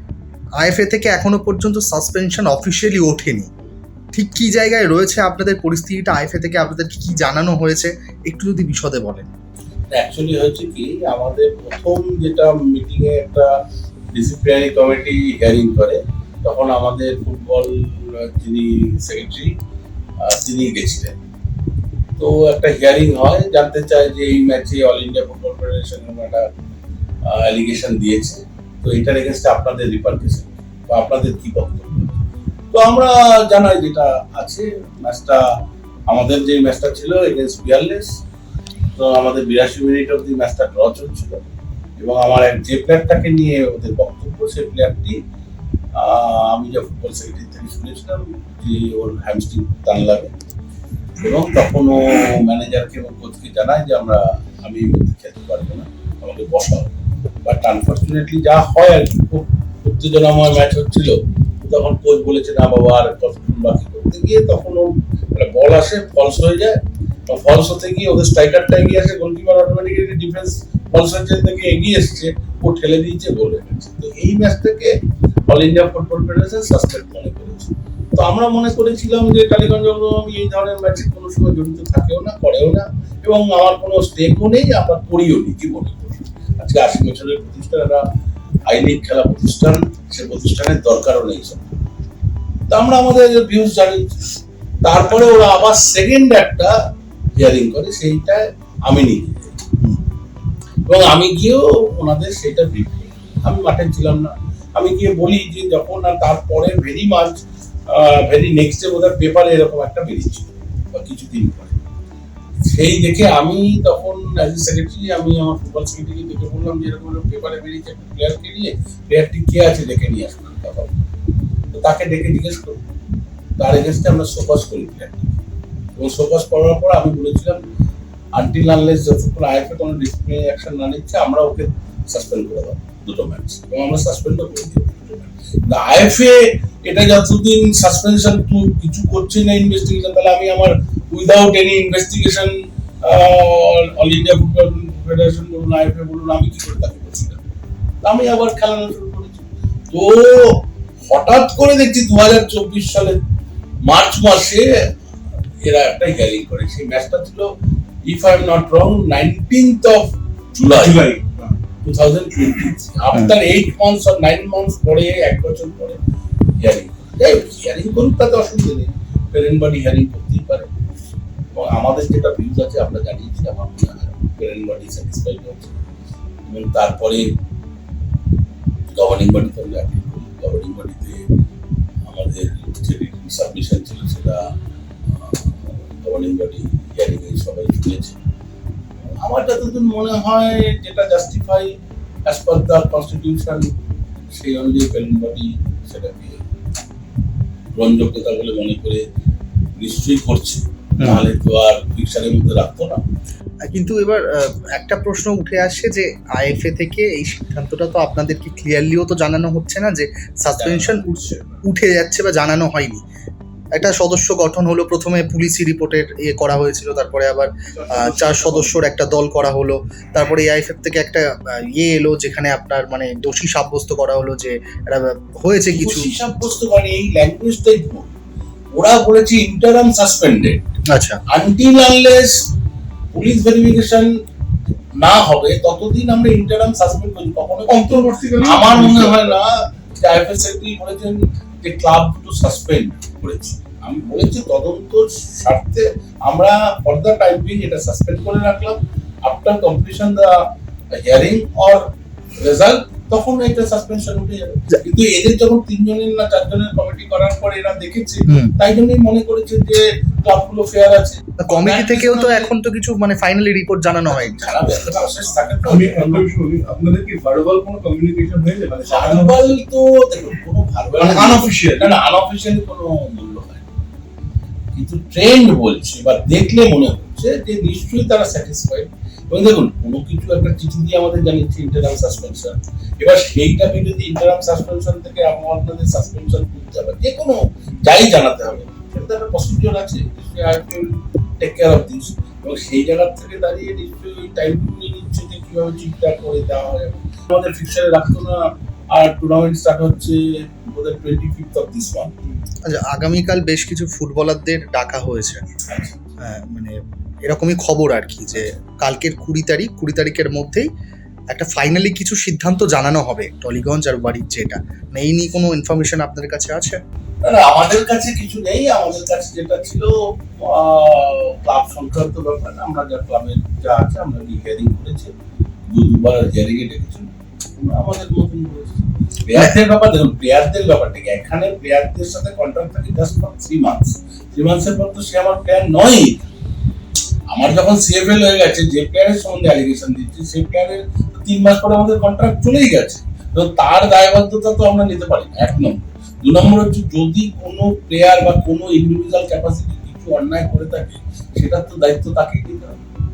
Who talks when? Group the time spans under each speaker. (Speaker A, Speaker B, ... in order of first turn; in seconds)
Speaker A: 0.6-3.5, 4.1-9.3, 201.0-201.2, 203.7-211.1, 211.6-213.0, 213.8-226.2, 230.9-231.2, 258.3-258.5, 261.4-264.5, 302.6-305.4, 306.2-310.7, 311.3-316.8
Speaker B: 9.9-13.5, 14.1-19.5, 20.2-21.2, 22.2-26.4, 27.3-32.2, 32.7-35.4, 36.1-38.2, 38.9-41.4, 42.0-45.2, 46.0-50.3, 51.2-56.9, 57.4-74.9, 75.5-88.0, 88.7-91.7, 92.7-94.2, 94.8-96.7, 97.3-99.6, 100.8-111.8, 112.6-120.9, 121.7-122.8, 123.6-125.4, 126.0-127.6, 128.4-147.4, 148.0-153.2, 153.8-154.7, 155.6-157.5, 158.1-161.1, 161.8-166.0, 166.6-170.7, 171.5-175.8, 176.5-177.3, 178.9-181.2, 182.1-184.4, 185.1-188.2, 189.1-191.7, 192.3-193.7, 194.3-196.4, 197.8-199.0, 199.8-203.0, 210.6-211.2, 225.7-228.1, 228.8-230.6, 231.3-232.4, 233.1-234.1, 235.0-251.9, 252.4-262.5, 264.1-266.2, 268.9-273.7, 274.7-302.1, 305.7-306.0, 317.2-325.1, 325.7-336.3, 337.3-352.8
Speaker C: 160.7-161.6, 210.8-211.6, 217.8-218.7, 237.7-239.3, 265.6-269.5, 271.0-271.9